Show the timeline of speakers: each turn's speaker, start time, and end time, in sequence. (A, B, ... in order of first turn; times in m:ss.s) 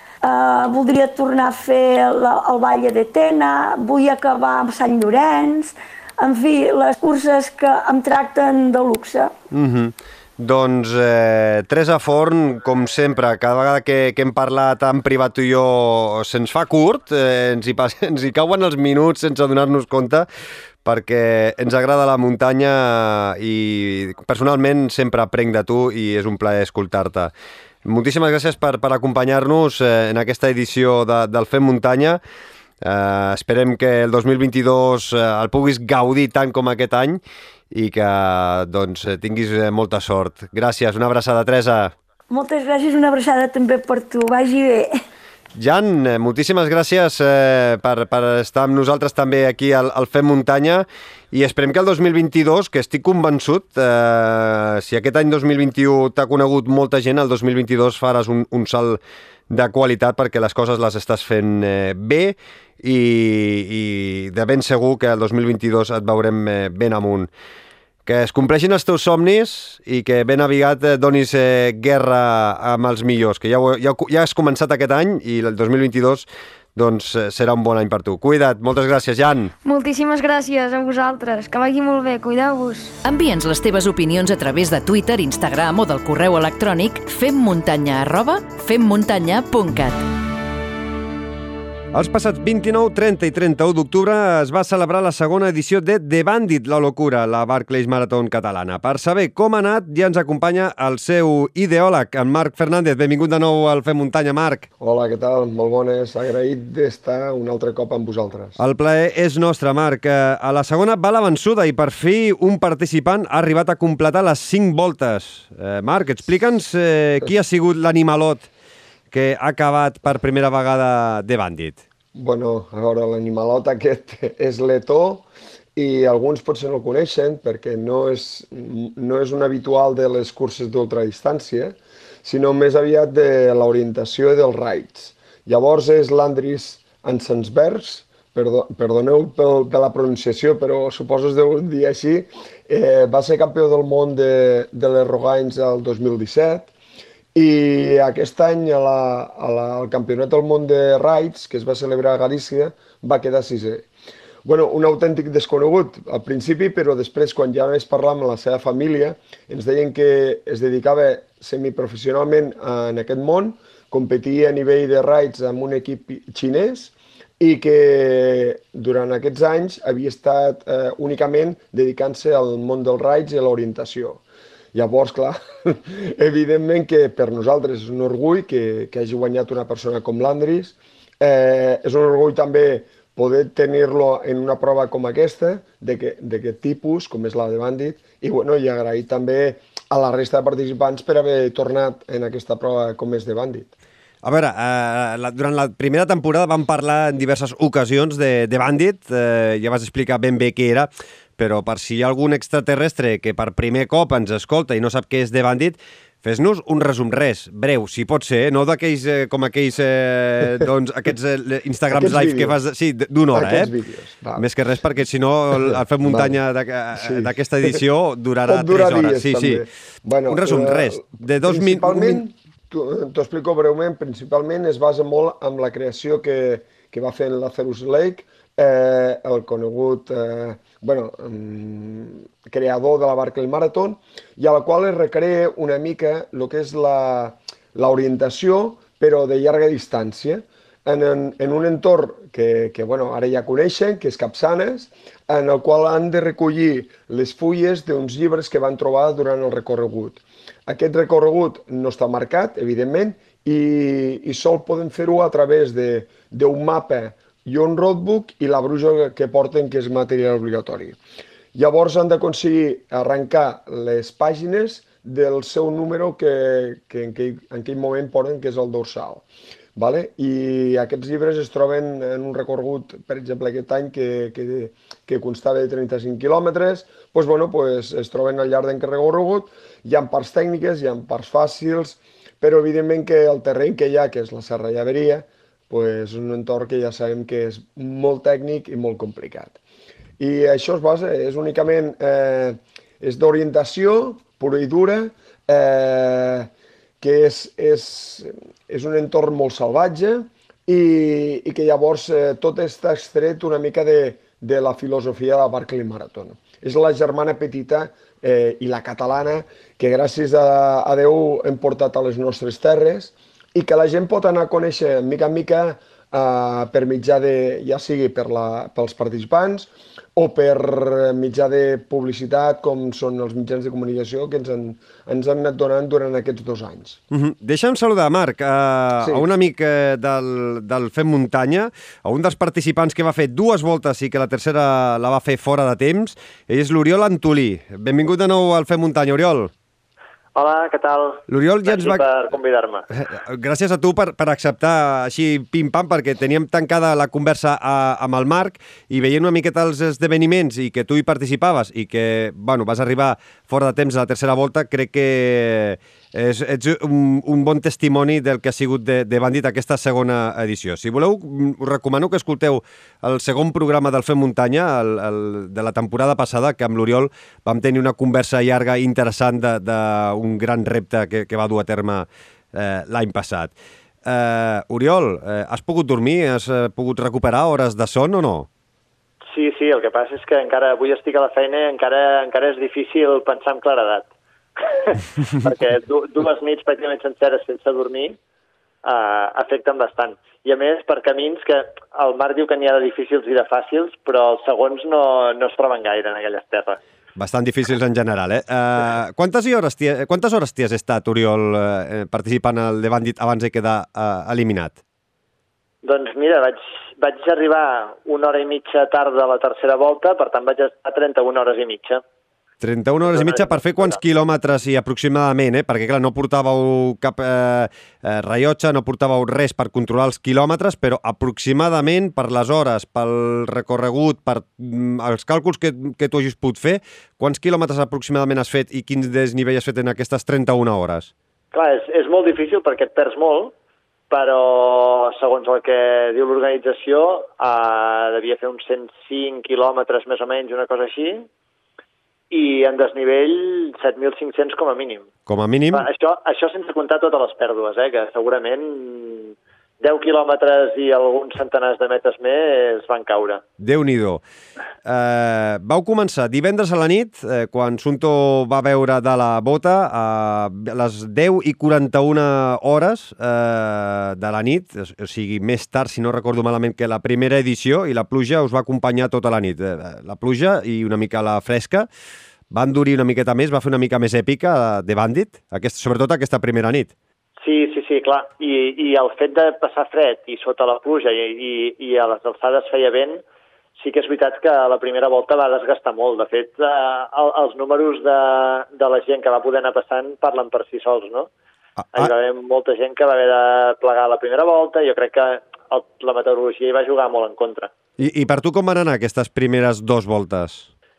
0:00.2-0:09.3 A
0:09.5-0:20.3 B
0:20.8-0:27.3 B
0:27.8-0:32.2 B
0:32.8-0:41.9 B
0:42.3-0:44.9 A
0:45.6-1:07.3 B
1:08.1-1:19.5 B
1:19.6-1:22.9 C
1:23.0-1:30.0 D
1:31.9-1:44.7 B
1:44.8-1:48.6 E
1:48.6-1:58.5 B
1:59.1-2:01.8 B
2:02.2-2:26.7 E
2:27.4-2:33.9 E
2:34.4-2:54.2 E
2:54.7-3:13.7 E
3:14.2-3:33.7 B
3:31.9-3:32.6 E
3:33.3-3:34.5 E
3:34.4-3:39.6 B
3:35.5-3:36.4 E
3:37.0-3:37.8 E
3:38.5-4:21.0 E
3:40.3-3:42.2 B
4:21.6-4:49.6 E
4:50.2-4:56.5 E
4:57.0-5:27.0 E
5:27.1-5:39.5 B
5:29.0-5:29.2 E
5:40.4-5:42.8 F
5:41.3-5:42.1 B
5:42.9-6:13.5 B
6:14.0-6:18.5 B
6:19.3-6:28.2 F
6:28.8-6:36.8 F
6:37.2-6:44.8 B
6:45.8-6:52.0 F
6:52.6-7:11.1 B
6:53.0-6:54.0 F
7:11.5-7:13.5 F
7:14.1-7:21.3 F
7:22.3-7:25.1 F
7:25.3-7:25.9 B
7:25.7-7:33.4 F
7:33.6-7:34.2 B
7:34.8-7:51.9 B
7:52.5-7:56.9 B
7:57.4-8:03.2 F
8:03.8-8:11.3 F
8:11.8-8:12.1 B
8:11.9-8:17.7 F
8:18.0-8:20.7 B